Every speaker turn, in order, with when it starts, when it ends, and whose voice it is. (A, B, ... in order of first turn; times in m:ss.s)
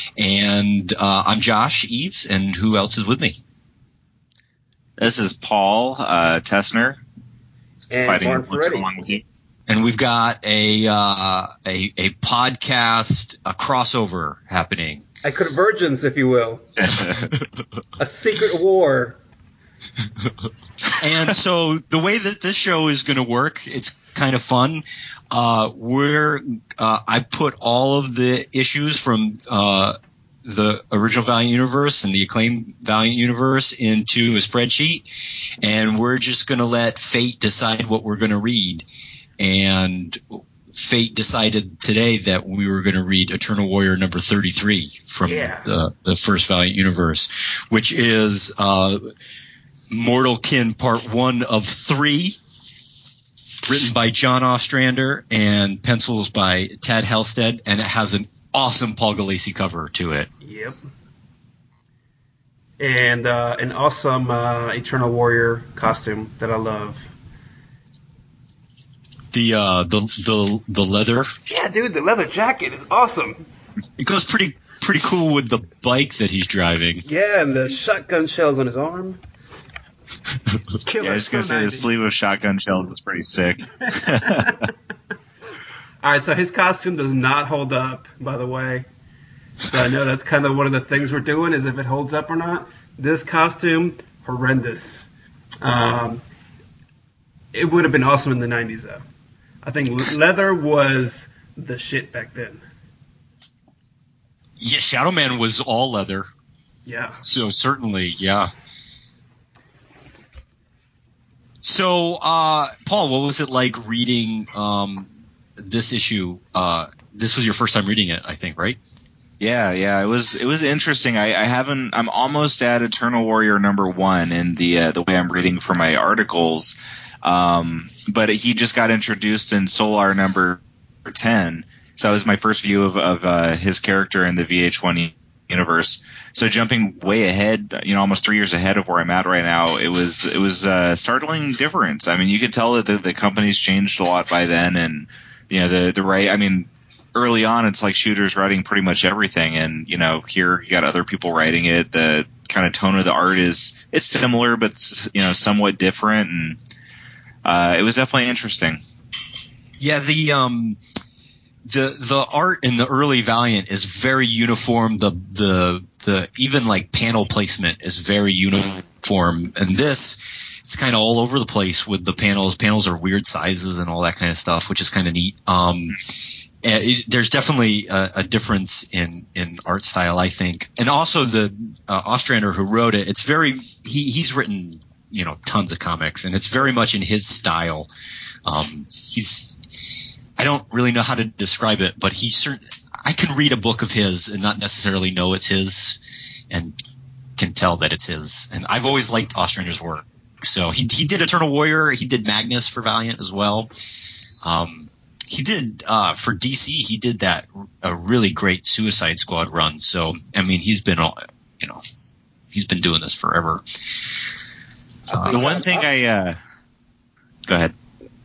0:00.2-0:03.4 A
0:05.0-0:07.0 B
0:07.9-0:08.9 C
0:08.0-0:09.2 B
0:09.7-0:15.0 A
0:15.2-0:16.6 C
0:16.8-0:17.3 B
0:17.2-0:17.5 A
0:18.0-0:19.2 C
0:21.0-0:35.0 A
0:35.6-0:38.8 A
0:39.4-0:49.0 A
0:45.2-0:45.7 C
0:49.9-0:52.4 A
0:53.7-1:00.3 A
1:00.4-1:00.8 C
1:02.8-1:07.1 C
1:09.3-1:11.3 A
1:11.5-1:13.4 C
1:14.0-1:17.0 A
1:17.0-1:19.2 C
1:20.8-1:21.9 C
1:21.0-1:24.5 B
1:23.9-1:24.7 C
1:26.0-1:28.8 C
1:29.6-1:35.1 C
1:35.6-1:36.2 C
1:37.5-1:39.0 C
1:39.6-1:42.6 C
1:44.6-1:46.3 A
1:46.8-1:47.2 C
1:47.2-1:48.5 A
1:51.6-1:58.8 A
1:59.4-2:36.6 B
2:37.4-2:38.8 B
2:39.8-2:40.8 A
2:41.7-3:07.9 A
3:08.4-3:09.6 A
3:10.4-3:16.0 A
3:16.5-3:16.8 A
3:17.4-3:23.7 A
3:24.4-3:31.8 A
3:32.5-3:34.2 A
3:35.1-3:35.9 C
3:35.1-3:35.5 A
3:35.3-3:36.4 B
3:37.5-3:37.7 B